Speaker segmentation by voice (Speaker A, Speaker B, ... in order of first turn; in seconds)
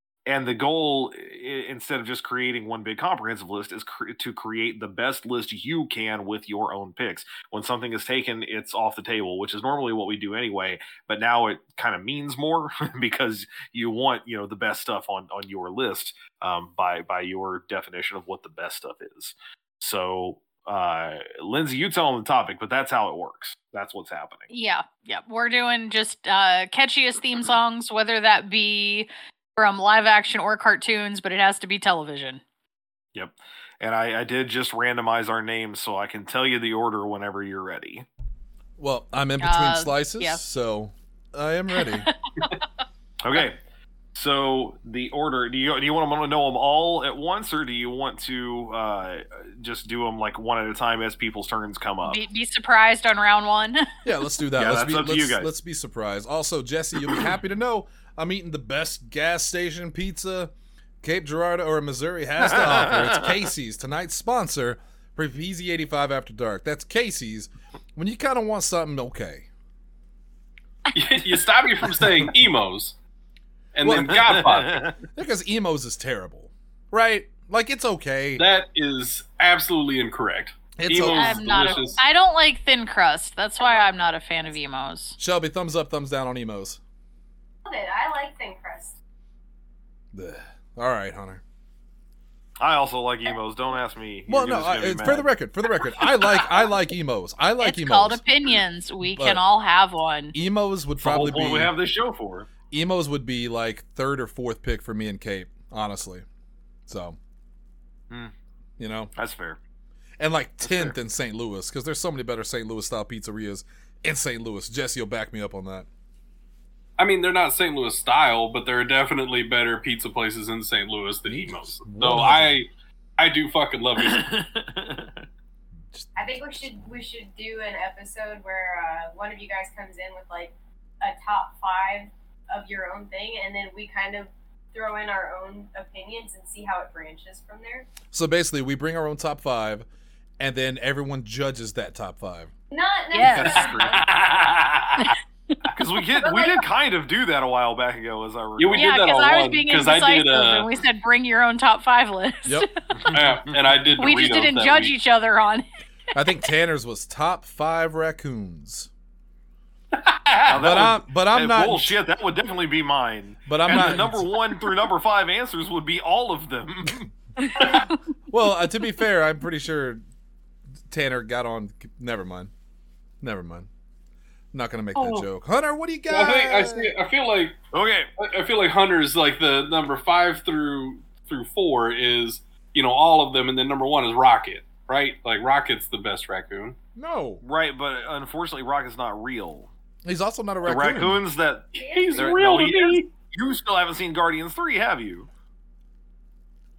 Speaker A: 0.2-24.5, 33.1-38.0, 43.2-43.6, 44.1-52.2, 54.5-55.5, 62.4-63.3, 73.9-75.0, 92.6-95.3, 101.0-102.5, 109.1-109.6, 110.6-110.9, 124.0-125.2, 143.3-144.2, 145.7-148.9, 153.0-153.6, 160.4-167.1, 177.7-178.1, 187.4-189.7, 190.6-195.3
Speaker B: 24.5-32.4, 39.4-40.4, 41.8-42.6, 52.0-54.0, 81.1-85.2, 97.6-100.3, 143.1-143.8, 145.0-145.7, 148.7-152.7, 154.0-155.6, 167.4-167.9, 174.9-175.2
Speaker C: 38.8-42.1, 54.0-60.5, 61.0-69.5, 73.8-74.2, 75.1-78.4, 80.8-81.5, 85.2-86.8, 90.1-91.4, 94.3-98.2, 99.0-99.4, 100.3-101.7, 102.7-106.2, 106.9-107.2, 108.8-109.1, 110.2-115.9, 121.2-122.6, 125.9-126.6, 138.1-139.8, 140.4-142.5, 156.1-158.9, 160.6-162.0, 163.5-164.3, 168.3-170.0, 170.9-172.5, 173.2-173.7, 174.5-176.9, 186.9-187.4, 190.0-191.2
Speaker D: 70.9-72.9, 73.8-74.9, 78.4-82.0, 117.0-124.2, 143.3-144.8, 148.6-150.7, 153.1-154.9, 159.9-160.9, 176.1-177.6, 178.2-186.8, 191.7-193.1
Speaker E: 81.7-82.0, 83.6-84.6, 87.6-89.0, 126.2-137.9, 142.7-144.6, 146.2-146.6, 191.7-192.4